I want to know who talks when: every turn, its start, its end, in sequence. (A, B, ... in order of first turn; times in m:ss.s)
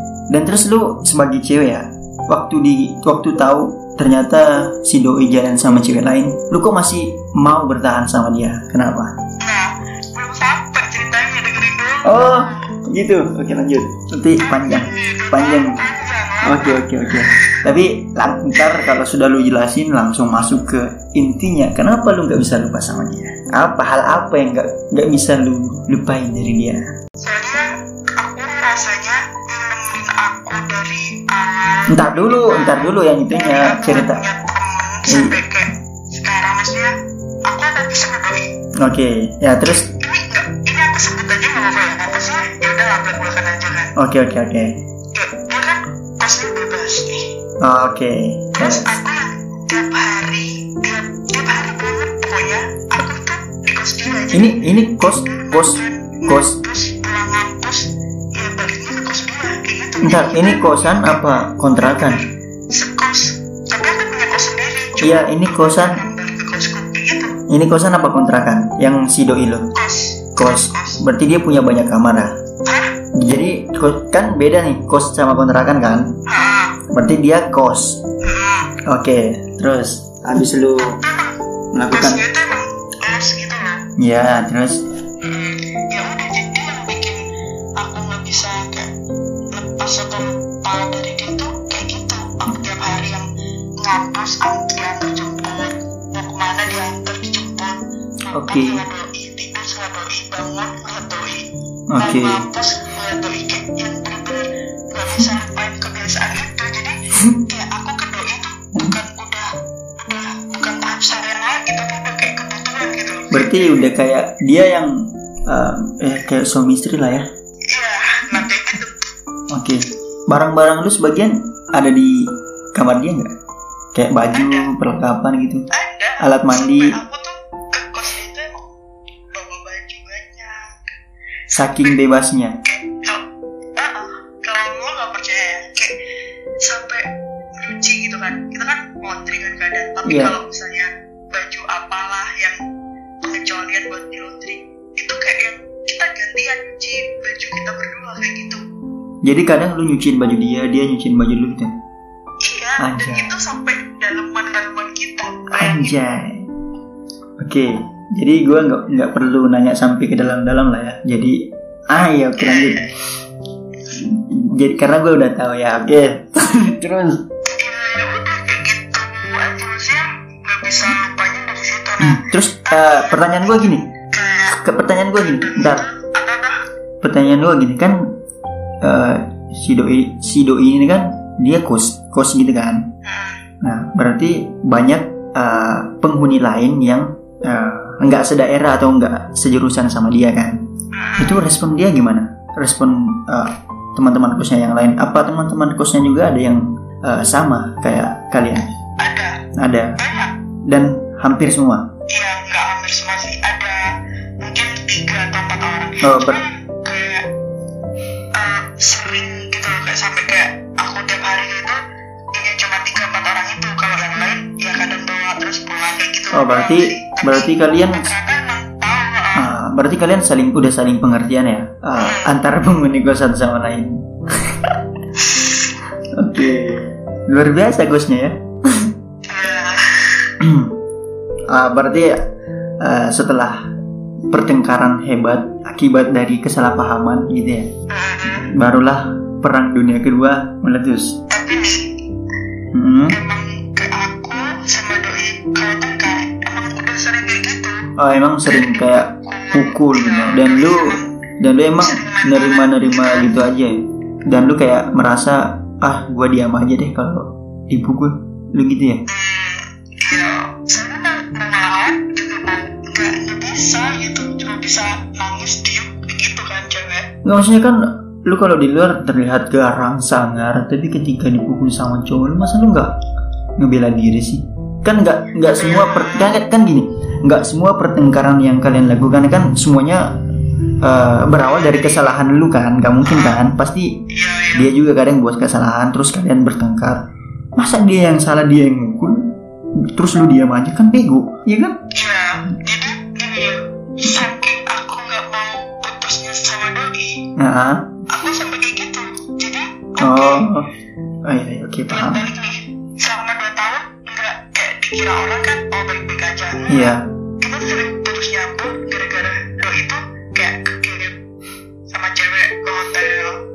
0:00.3-0:09.1 A
0:09.4-0:12.7 B
0:12.0-0:15.8 A
0:14.4-0:17.6 B
0:16.4-0:26.8 A
0:18.6-0:18.9 B
0:27.2-0:36.9 B
0:31.9-0:34.2 A
0:35.1-0:35.4 A
0:37.4-0:38.5 B
0:38.8-0:39.8 A
0:39.8-0:43.9 B
0:44.0-0:44.7 A
0:45.1-0:47.3 B
0:47.6-0:49.0 A
0:48.6-1:07.3 B
0:54.3-0:56.6 A
1:00.0-1:02.2 A
1:05.0-1:06.0 A
1:07.5-1:09.7 A
1:09.7-1:11.0 B
1:10.4-1:12.3 A
1:12.6-1:12.9 B
1:13.1-1:16.1 A
1:16.3-1:16.8 B
1:16.9-1:18.0 A
1:18.2-1:18.8 B
1:18.8-1:21.0 A
1:20.8-1:21.4 B
1:21.7-1:22.2 A
1:21.9-1:23.8 B
1:24.0-1:24.8 A
1:25.2-1:28.9 B
1:29.5-1:33.3 B
1:33.8-1:41.5 B
1:38.3-1:38.8 A
1:41.9-1:42.4 A
1:42.0-1:49.5 B
1:50.0-1:53.8 B
1:53.3-1:54.9 A
1:55.5-1:57.2 A
1:57.7-1:59.1 B
1:59.5-2:03.3 A
2:03.9-2:05.6 A
2:04.3-2:04.7 B
2:05.7-2:08.7 B
2:06.2-2:07.0 A
2:09.3-2:10.9 B
2:11.5-2:12.0 B
2:11.5-2:12.6 A
2:12.6-2:13.2 B
2:13.8-2:15.9 B
2:16.6-2:22.6 B
2:20.0-2:20.3 A
2:23.2-2:28.6 B
2:29.2-2:31.7 A
2:32.4-2:35.9 B
2:32.8-2:33.3 A
2:35.5-2:36.4 A
2:37.4-2:41.4 A
2:41.9-2:42.8 A
2:42.3-2:42.9 B
2:43.9-2:47.2 A
2:47.4-2:56.6 B
2:52.0-2:53.8 A
2:54.5-2:55.8 A
2:57.0-2:58.1 A
2:58.8-3:02.8 A
3:03.0-3:03.5 B
3:03.6-3:10.6 A
3:10.9-3:11.5 B
3:11.2-3:18.7 A
3:19.0-3:19.4 B
3:19.6-3:20.0 A
3:20.0-3:20.3 B
3:20.7-3:21.8 A
3:22.1-3:27.2 B
3:26.0-3:26.4 A
3:28.3-3:39.6 B
3:36.3-3:38.1 A
3:39.3-3:44.7 A
3:41.9-3:42.4 B
3:45.2-3:45.7 B
3:46.1-3:48.9 A
3:49.2-3:50.3 B
3:50.4-3:50.7 A
3:51.5-3:52.2 A
3:52.8-3:53.6 A
3:54.3-3:57.7 A
3:57.9-3:58.5 B
3:58.5-4:01.2 A
4:01.3-4:01.8 B
4:02.7-4:03.2 A
4:03.1-4:07.9 B
4:08.0-4:19.0 A
4:08.5-4:11.1 B
4:11.8-4:13.3 B
4:19.1-4:27.1 B
4:27.2-4:32.9 A
4:33.6-4:40.2 A
4:35.5-4:36.4 B
4:40.8-4:44.0 A
4:41.3-4:42.1 B
4:43.0-4:43.4 B
4:44.1-4:44.7 B
4:44.5-4:47.0 A
4:47.6-4:49.3 A
4:49.8-4:51.8 A
4:51.9-4:57.2 B
4:57.4-4:57.9 A
4:58.1-5:00.5 B
5:00.0-5:00.7 A
5:01.2-5:02.3 A
5:01.9-5:11.2 B
5:06.7-5:07.0 A
5:11.9-5:13.4 B